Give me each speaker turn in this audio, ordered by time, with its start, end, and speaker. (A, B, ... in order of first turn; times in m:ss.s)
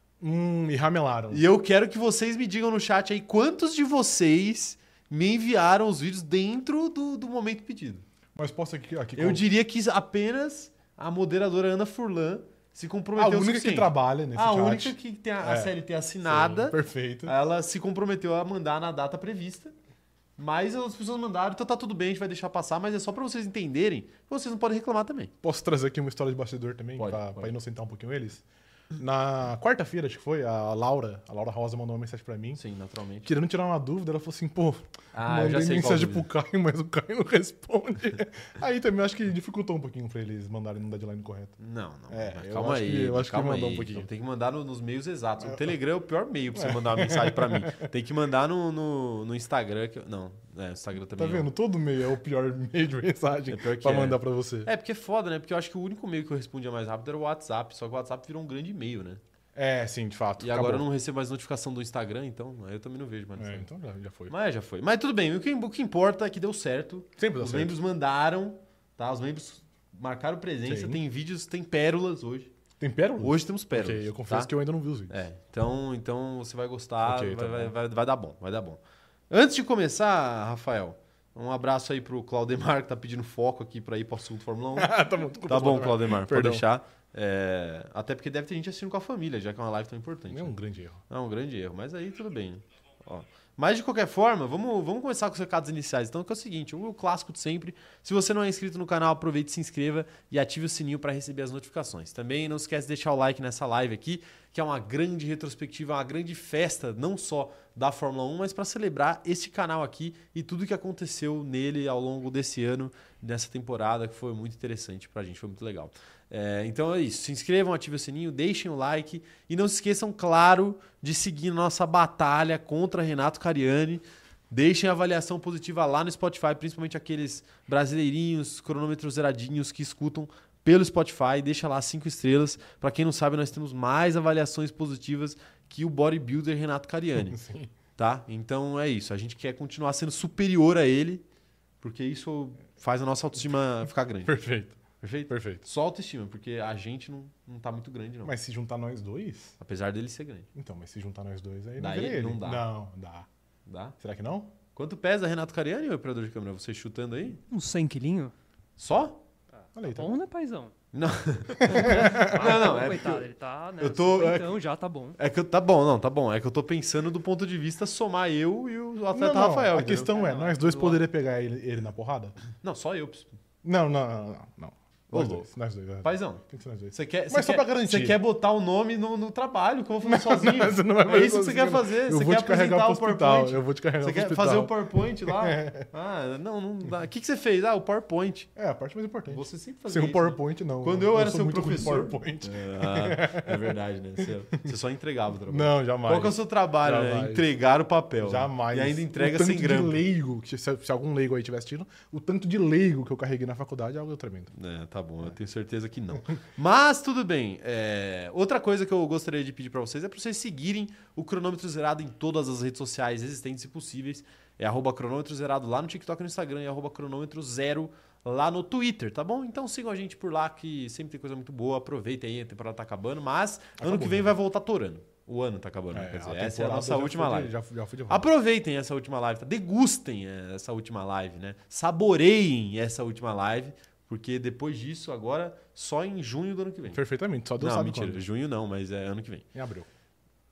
0:00.2-0:01.5 A
0:01.3-0:08.0 B
0:08.4-0:09.4 A
0:09.2-0:19.7 B
0:13.2-0:17.3 A
0:20.4-0:25.3 B
0:25.4-0:28.4 A
0:27.0-0:27.5 B
0:29.0-0:32.6 A
0:32.6-0:33.3 B
0:33.2-0:41.6 A
0:35.1-0:36.3 B
0:41.6-0:51.5 B
0:42.1-0:44.1 A
0:45.4-0:45.7 A
0:46.5-0:47.9 A
0:51.2-0:54.7 A
0:53.5-0:59.2 B
0:59.6-1:00.9 A
1:00.4-1:03.7 B
1:03.4-1:04.3 A
1:04.3-1:12.5 B
1:07.2-1:07.8 A
1:10.6-1:11.0 A
1:12.8-1:15.2 A
1:13.2-1:14.5 B
1:15.1-1:24.9 B
1:17.0-1:17.7 A
1:24.8-1:26.6 A
1:25.5-1:30.6 B
1:30.3-1:31.0 A
1:31.1-2:17.4 B
2:17.2-2:17.7 A
2:18.0-2:21.2 B
2:21.8-2:24.4 B
2:24.2-2:25.6 A
2:25.0-2:28.3 B
2:28.2-2:29.6 A
2:29.6-2:30.5 B
2:30.6-2:33.3 A
2:31.8-2:32.7 B
2:33.7-2:34.0 B
2:34.0-2:34.5 A
2:34.8-2:37.4 B
2:37.5-2:38.3 C
2:38.8-2:39.2 B
2:39.6-2:40.7 C
2:39.8-2:40.2 A
2:40.9-2:43.3 B
2:41.7-2:42.4 A
2:41.7-2:45.2 C
2:43.8-2:44.5 B
2:45.2-2:51.0 B
2:49.1-2:52.4 A
2:52.6-2:53.4 B
2:53.6-2:58.2 A
2:55.1-2:55.5 B
2:56.0-3:08.5 B
3:00.0-3:05.9 A
3:08.6-3:13.7 A
3:09.3-3:20.1 B
3:15.5-3:17.5 A
3:18.2-3:24.5 A
3:24.5-3:47.5 B
3:43.8-3:44.4 A
3:45.9-3:48.3 A
3:48.1-3:57.0 B
3:56.9-3:58.3 A
3:57.6-3:59.5 B
3:59.5-3:59.9 A